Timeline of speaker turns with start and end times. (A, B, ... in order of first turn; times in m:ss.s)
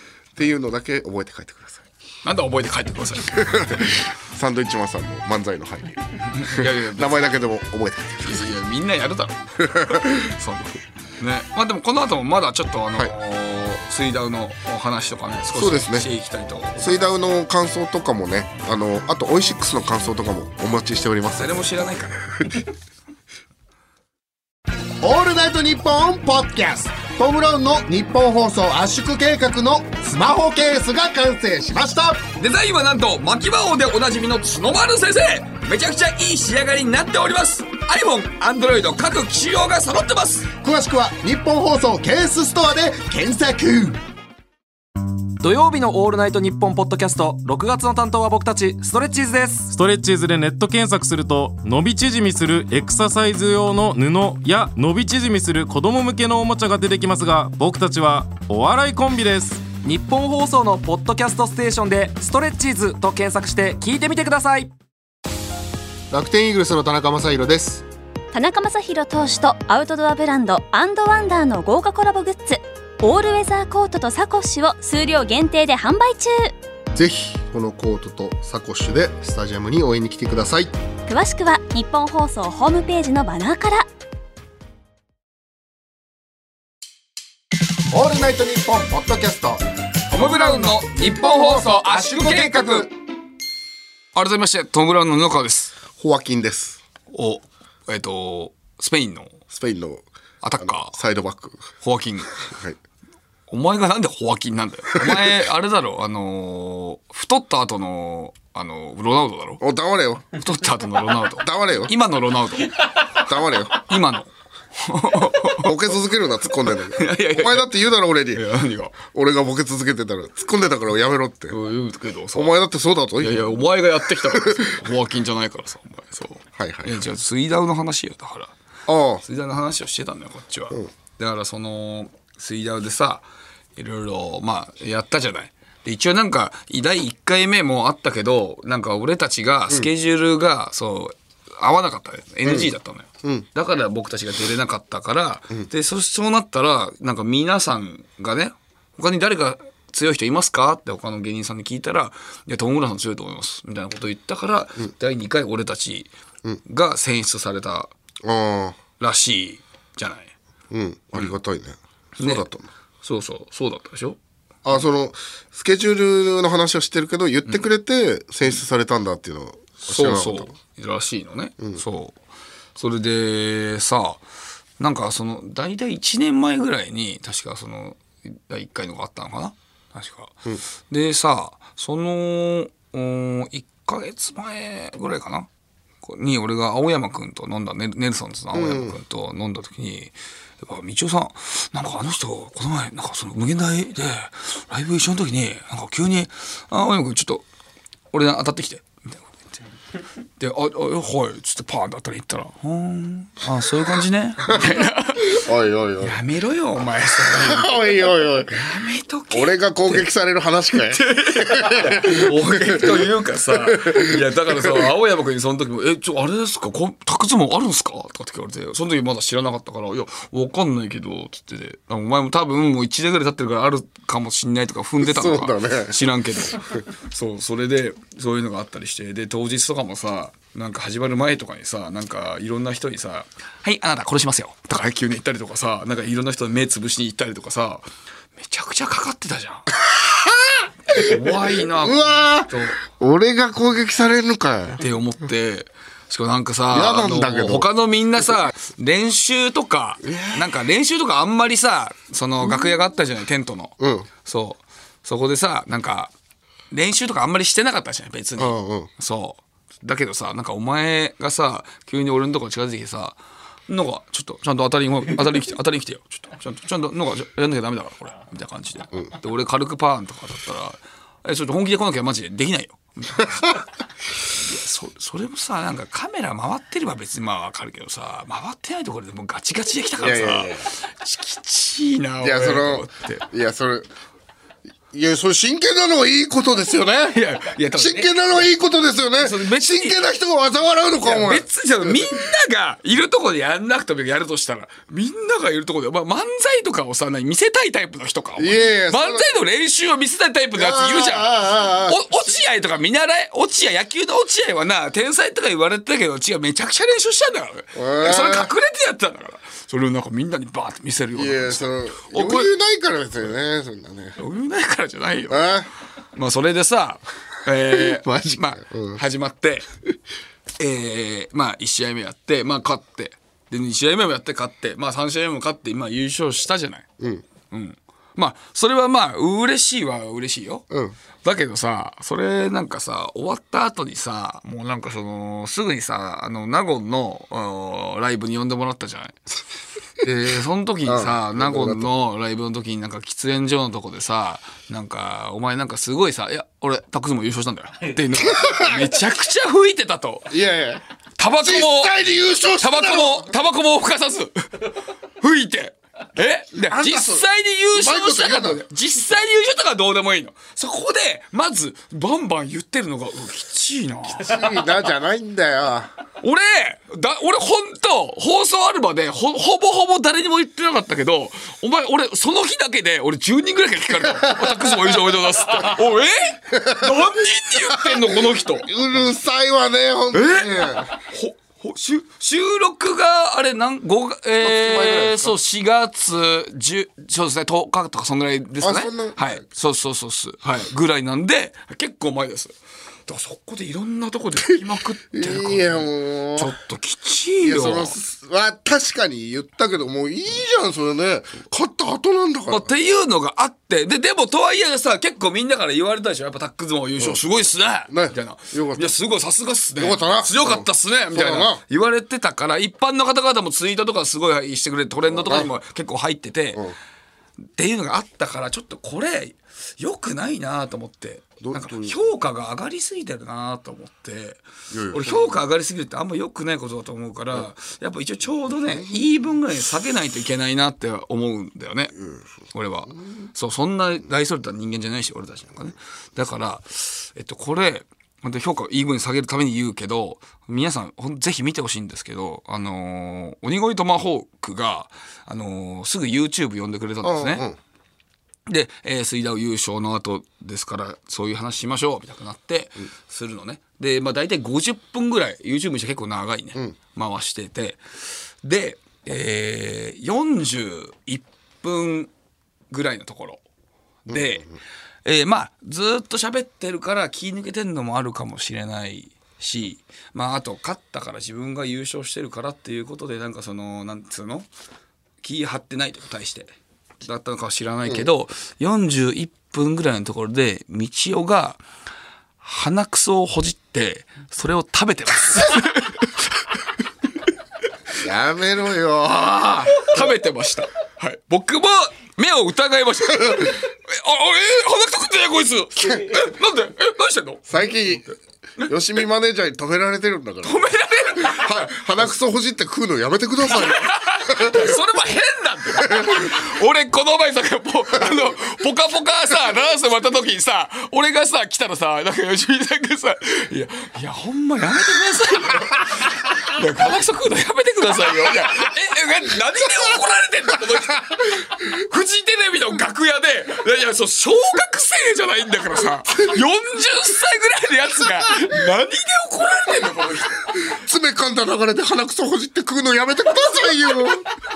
0:00.4-0:01.8 A
0:02.2-0:04.0 B
0:03.3-0:08.5 A
0:06.3-0:07.4 B
0:08.2-0:17.0 B
0:09.6-0:10.3 A
0:15.5-0:16.1 A
0:16.8-0:21.5 A
0:21.4-0:22.2 B
0:25.0-0:32.2 C
0:32.4-0:40.5 B
0:40.6-0:44.0 C
0:45.4-0:49.7 D
0:49.7-0:59.7 E
0:59.8-1:04.7 D
1:06.1-1:07.8 C
1:08.3-1:16.5 F
1:16.9-1:20.7 C
1:21.1-1:23.8 F
1:27.9-1:29.6 C
1:30.1-1:32.9 B
1:31.0-1:32.9 C
1:34.1-1:35.7 B
1:36.0-1:36.8 A
1:37.1-1:39.4 B
1:39.5-1:40.0 A
1:40.4-1:41.0 B
1:40.6-1:41.6 A
1:41.8-1:42.3 B
1:42.4-1:42.8 A
1:43.5-1:49.6 B
1:44.9-1:45.3 A
1:49.6-1:50.3 A
1:50.3-1:53.1 B
1:51.4-1:51.9 A
1:53.2-1:53.8 A
1:53.7-1:55.7 B
1:55.4-1:58.4 A
1:56.9-1:57.8 B
1:58.3-1:58.9 B
1:59.0-2:01.6 A
2:01.5-2:02.5 B
2:02.3-2:03.5 A
2:03.2-2:08.5 B
2:04.2-2:04.7 A
2:06.6-2:06.9 A
2:08.9-2:09.2 A
2:09.2-2:13.2 B
2:13.8-2:36.1 B
2:22.4-2:22.7 A
2:36.6-2:37.9 B
2:38.2-2:38.8 A
2:39.0-2:40.3 B
2:40.7-2:42.7 A
2:42.2-2:42.5 B
2:43.0-2:44.2 B
2:44.6-2:50.5 A
2:49.9-2:52.2 B
2:52.8-2:54.2 B
2:54.8-3:00.4 B
3:00.9-3:05.5 B
3:06.0-3:17.4 B
3:08.5-3:09.0 A
3:18.1-3:19.6 B
3:20.4-3:25.4 B
3:25.3-3:26.2 A
3:26.0-3:27.9 B
3:27.2-3:28.6 A
3:28.5-3:30.1 B
3:29.3-3:34.7 A
3:30.9-3:59.7 B
3:45.0-3:46.0 A
3:59.8-4:04.8 A
4:00.9-4:02.8 B
4:04.8-4:16.1 B
4:06.7-4:07.7 A
4:10.0-4:10.4 A
4:13.8-4:14.1 A
4:16.7-4:23.2 B
4:18.4-4:18.9 A
4:23.7-4:33.6 B
4:34.3-4:43.2 B
4:40.0-4:40.7 A
4:42.2-4:43.9 A
4:44.9-4:47.2 A
4:47.1-4:48.1 B
4:47.7-4:52.1 A
4:49.2-4:50.0 B
4:51.0-5:12.5 B
4:58.4-4:59.3 A
5:00.5-5:02.0 A
5:07.7-5:08.5 A
5:11.1-5:14.2 A
5:14.2-5:15.5 B
5:15.3-5:15.7 A
5:16.1-5:19.7 B
5:17.7-5:19.0 A
5:20.6-5:26.8 B
5:27.5-5:30.6 B
5:31.2-5:39.2 B
5:40.0-5:50.4 B
5:40.8-5:41.9 A
5:48.2-5:48.9 A
5:50.3-5:50.8 A
5:51.2-5:52.0 B
5:51.3-5:53.3 A
5:52.6-5:54.6 B
5:55.2-6:04.4 B
5:56.6-5:58.6 A
6:04.2-6:05.9 A
6:06.2-6:18.7 B
6:16.5-6:16.9 A
6:17.6-6:20.9 A
6:20.1-6:32.5 B
6:24.4-6:25.3 A
6:28.6-6:29.4 A
6:33.1-6:38.0 B
6:35.1-6:36.6 A
6:37.4-6:42.7 A
6:42.5-6:56.6 B
6:47.9-6:48.9 A
6:49.8-6:51.6 A
6:55.1-6:55.5 A
6:57.6-7:12.0 B
7:01.4-7:02.0 A
7:04.7-7:05.4 A
7:08.7-7:09.0 A
7:12.5-7:27.4 B
7:27.0-7:27.6 A
7:28.5-7:37.8 B
7:38.4-7:42.1 B
7:42.7-7:43.4 B
7:44.0-7:44.5 B
7:44.1-7:44.6 A
7:45.0-7:54.5 B
7:55.2-7:56.5 B
7:57.0-8:01.6 B
8:02.4-8:06.4 B
8:08.0-8:09.8 A
8:09.1-8:17.4 B
8:17.5-8:18.1 A
8:18.6-8:24.7 A
8:20.4-8:21.8 B
8:23.5-8:50.6 B
8:25.8-8:26.3 A
8:50.6-8:54.3 A